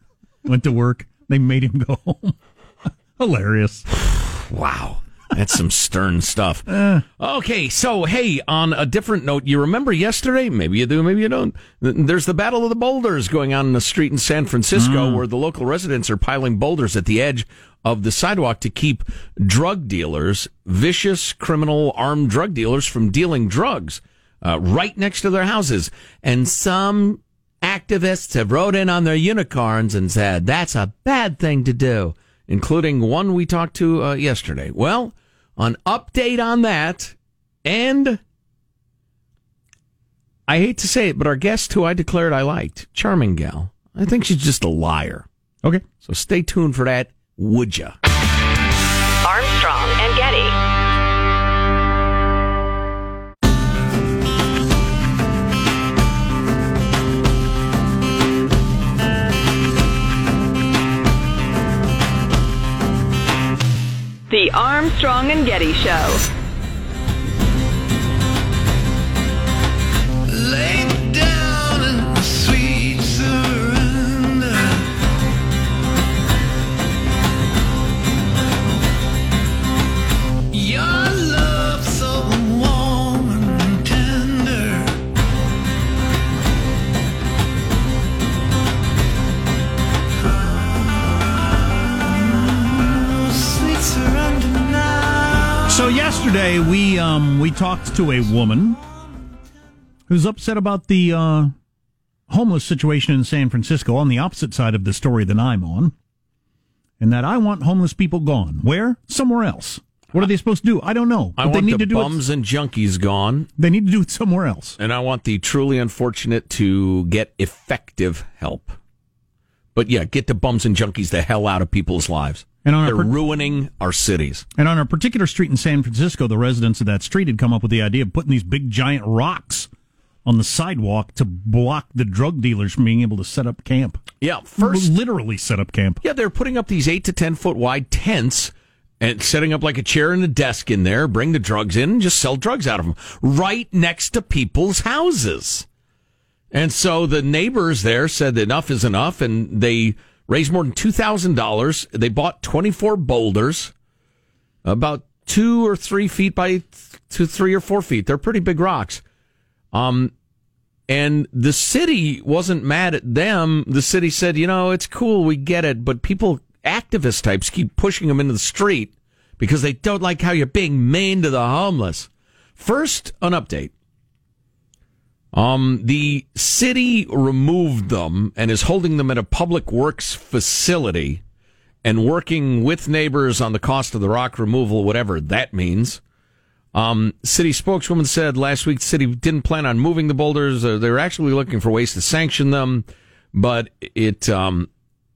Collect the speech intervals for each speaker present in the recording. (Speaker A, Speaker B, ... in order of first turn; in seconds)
Speaker A: 0.4-3.9, 6.7-7.0, 14.7-15.2, 95.7-98.8, 100.1-101.5, 102.3-105.9, 107.0-112.2, 113.6-114.8, 122.6-123.1, 124.6-129.7, 130.2-134.0, 134.6-136.0
Speaker B: 4.1-38.2, 40.5-45.2, 46.0-47.9, 80.5-80.9, 82.4-84.7, 93.7-94.5, 111.4-113.5, 114.8-118.8, 119.7-124.4, 134.2-134.9, 136.0-145.7, 146.5-153.7, 154.6-159.0, 159.7-160.1, 160.9-173.7, 175.3-181.2, 181.8-186.0, 186.7-194.7
Speaker C: 49.2-50.5, 64.3-66.2